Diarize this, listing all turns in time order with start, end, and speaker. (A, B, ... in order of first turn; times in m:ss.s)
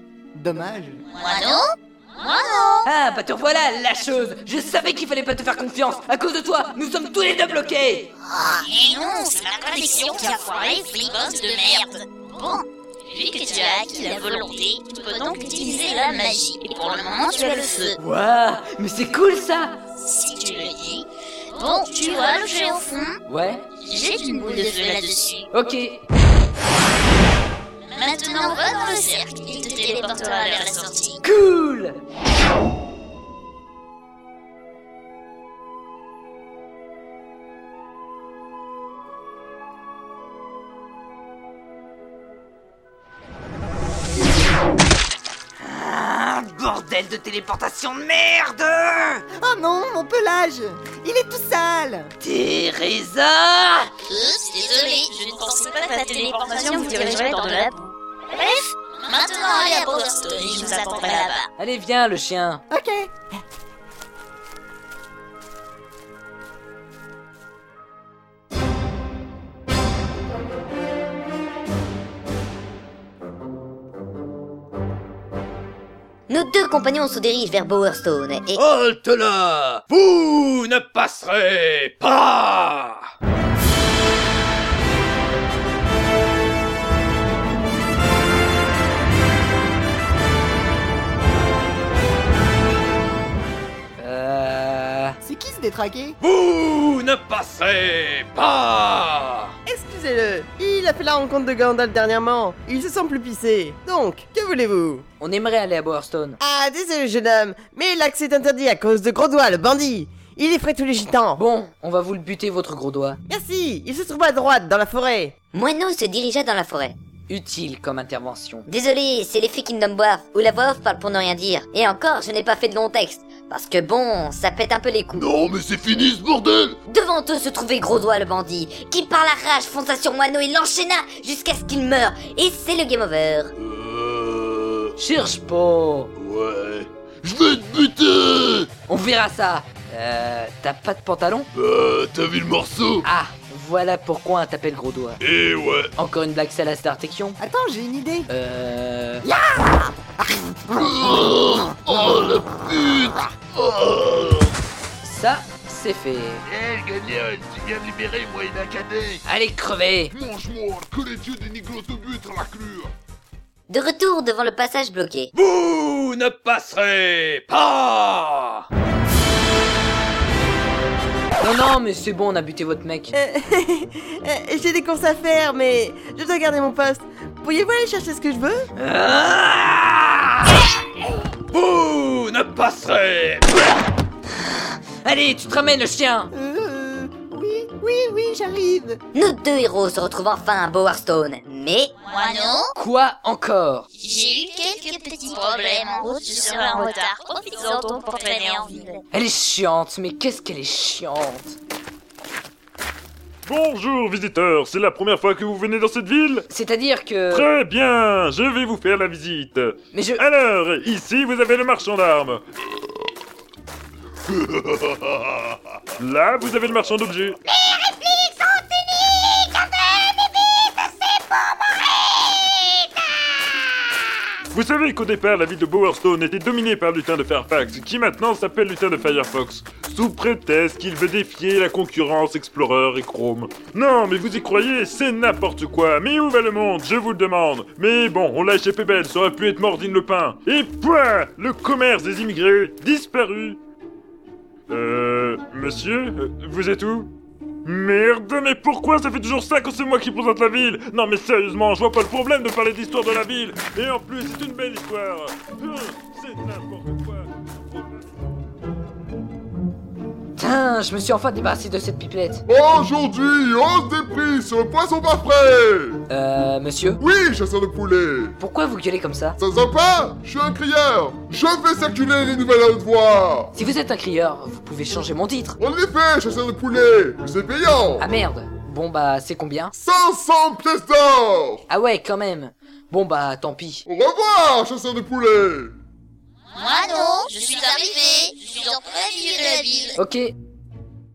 0:00.4-0:01.0 A
0:01.2-0:02.9 B
0:02.8-0:08.1 C
0:08.3-0:18.0 B
0:18.0-0:19.7 C
0:20.0-0:23.2 B
0:23.3-0:23.6 C
0:23.8-0:25.5 B
0:25.5-0:26.0 C
0:27.9-0:31.2 B
0:31.2-0:32.0 C
0:45.6-0:49.2 C
0:49.3-0:52.1 A
0:52.2-0:53.9 C
0:54.1-1:01.5 B
1:01.6-1:02.6 C
1:02.7-1:03.4 A
1:16.3-1:18.6 D
1:18.6-1:23.1 E
1:34.0-1:35.2 C
1:35.2-1:36.2 A
1:36.2-1:39.5 E
1:39.7-1:45.0 F
1:45.2-1:46.4 C
1:46.4-1:51.4 F
1:51.4-1:53.2 C
1:53.3-1:55.3 F
1:55.5-1:57.0 D
1:57.3-1:58.7 C
1:58.7-2:05.3 D
2:05.2-2:06.8 E
2:06.9-2:13.5 D
2:13.6-2:14.9 E
2:15.0-2:16.1 C
2:16.2-2:18.7 E
2:18.9-2:21.5 C
2:21.5-2:23.1 E
2:23.0-2:25.2 C
2:25.2-2:25.9 E
2:26.0-2:27.4 C
2:27.4-2:28.3 A
2:28.3-2:29.2 C
2:29.2-2:31.3 A
2:30.8-2:34.5 E
2:35.0-2:36.4 C
2:36.5-2:39.2 E
2:39.2-2:40.1 C
2:40.1-2:42.9 E
2:43.7-2:45.3 D
2:45.4-2:48.6 E
2:51.4-2:53.1 C
2:53.1-2:58.7 F
2:58.8-3:00.3 C
3:01.9-3:02.2 C
3:02.0-3:03.4 E
3:05.0-3:06.3 C
3:06.3-3:09.0 A
3:09.1-3:11.9 D
3:12.0-3:12.7 B
3:12.8-3:13.9 C
3:14.0-3:19.0 B
3:19.1-3:21.6 C
3:23.4-3:26.5 G
3:26.5-3:27.5 C
3:27.3-3:32.4 G
3:29.9-3:30.2 C
3:34.6-3:34.9 E
3:36.0-3:37.4 G
3:37.6-3:42.9 D
3:44.5-4:03.6 G
4:04.7-4:07.1 G
4:07.6-4:18.1 G
4:20.4-4:22.4 C
4:22.5-4:26.0 H
4:26.1-4:27.0 C
4:27.0-4:28.4 H
4:28.4-4:29.4 C
4:29.4-4:33.5 H
4:33.5-4:35.6 C
4:35.6-4:38.1 H
4:38.0-4:39.7 C
4:39.8-4:41.6 H
4:41.7-4:43.8 C
4:43.9-4:45.7 H
4:46.6-4:50.0 B
4:50.0-4:50.3 C